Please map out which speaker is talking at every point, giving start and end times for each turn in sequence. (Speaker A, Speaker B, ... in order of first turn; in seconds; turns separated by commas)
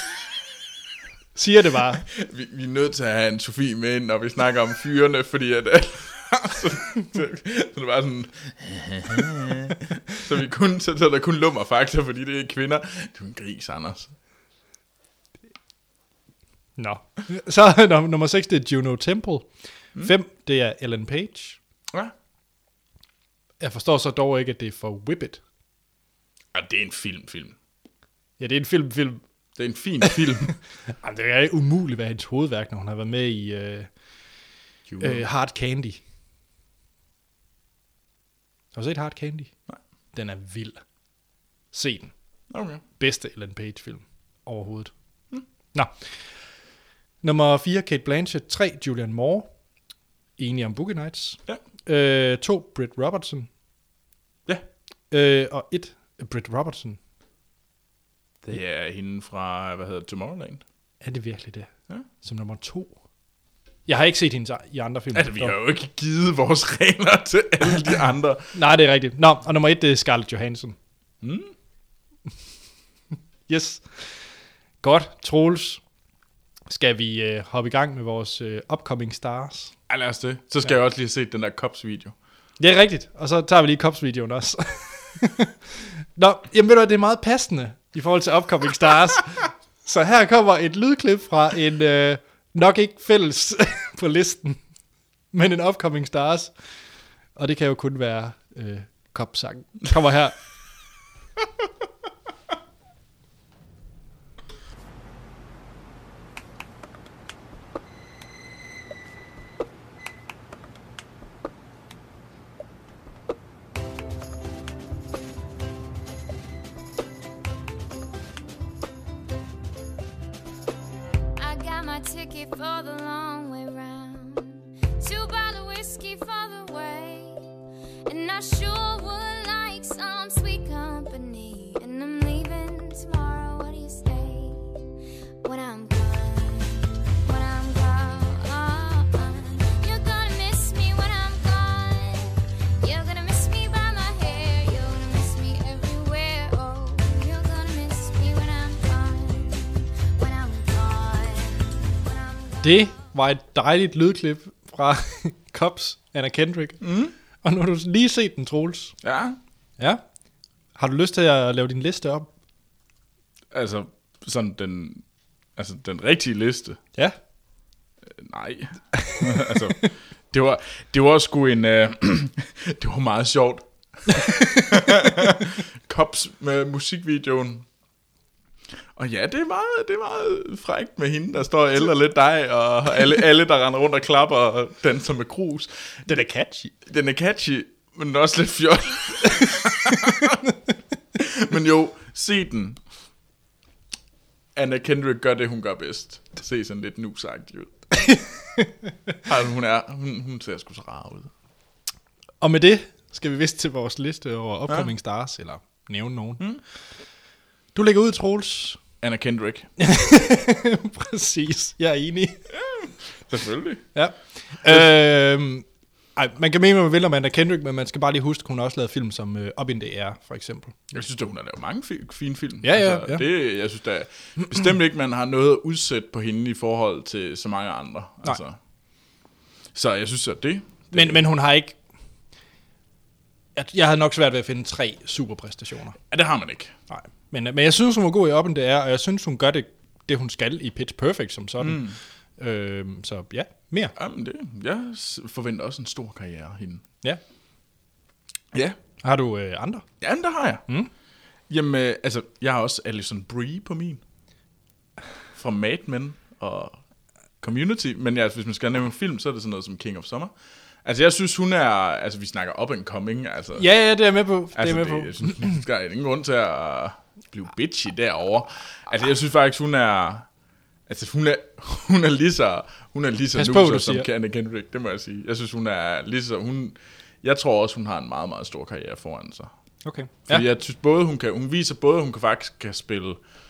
Speaker A: 1.4-2.0, Speaker B: 2.0-14.1, Speaker A: 16.8-21.6, Speaker A: 23.6-25.4, Speaker B: 26.5-27.6, Speaker A: 28.4-29.2, Speaker B: 29.6-30.6, Speaker A: 30.9-33.9, Speaker B: 34.9-35.2, Speaker A: 35.0-36.0, Speaker A: 38.7-39.5, Speaker A: 40.1-40.8, Speaker A: 41.7-42.1, Speaker B: 42.5-42.8, Speaker A: 43.0-44.9, Speaker A: 47.2-49.5, Speaker A: 50.4-53.5, Speaker A: 55.1-57.0, Speaker B: 58.4-60.6, Speaker A: 61.0-61.7, Speaker A: 62.2-62.9, Speaker A: 63.9-65.5, Speaker B: 65.1-68.5, Speaker A: 68.5-70.8, Speaker B: 71.2-71.5, Speaker A: 73.5-74.0, Speaker A: 74.8-75.8, Speaker A: 76.7-79.7, Speaker B: 79.9-82.1, Speaker A: 82.6-85.5, Speaker A: 86.2-94.6, Speaker A: 95.3-96.5, Speaker A: 97.3-100.4, Speaker C: 121.4-127.4, Speaker C: 128.1-134.7, Speaker C: 135.4-153.0, Speaker A: 152.6-156.8, Speaker B: 156.8-157.1, Speaker A: 157.4-159.0, Speaker B: 159.0-159.4, Speaker A: 160.8-162.3, Speaker B: 163.5-165.0, Speaker B: 165.6-166.8, Speaker B: 168.1-177.7, Speaker A: 168.9-169.9, Speaker A: 174.2-175.1, Speaker B: 178.9-186.0, Speaker A: 186.1-186.7, Speaker B: 186.8-190.4, Speaker B: 191.2-192.8, Speaker B: 194.5-197.8, Speaker A: 198.1-198.7, Speaker B: 199.2-201.3, Speaker A: 202.4-206.4, Speaker B: 204.7-204.9, Speaker A: 207.7-208.8, Speaker B: 209.0-209.7, Speaker A: 209.8-212.4, Speaker B: 212.5-213.9, Speaker A: 213.9-220.7, Speaker B: 220.9-228.6, Speaker A: 222.6-223.2, Speaker B: 229.7-231.2, Speaker A: 230.9-231.8, Speaker A: 233.6-236.0, Speaker B: 236.1-236.7, Speaker A: 236.9-243.9, Speaker B: 241.6-242.0, Speaker B: 243.9-246.8, Speaker A: 249.0-249.8, Speaker B: 250.0-250.6, Speaker B: 251.5-254.0, Speaker B: 255.3-256.8, Speaker B: 257.4-260.3, Speaker B: 260.8-263.7, Speaker A: 263.6-265.6, Speaker B: 264.5-270.3, Speaker B: 270.9-279.5, Speaker A: 273.3-274.1, Speaker A: 279.8-280.4, Speaker B: 280.3-283.2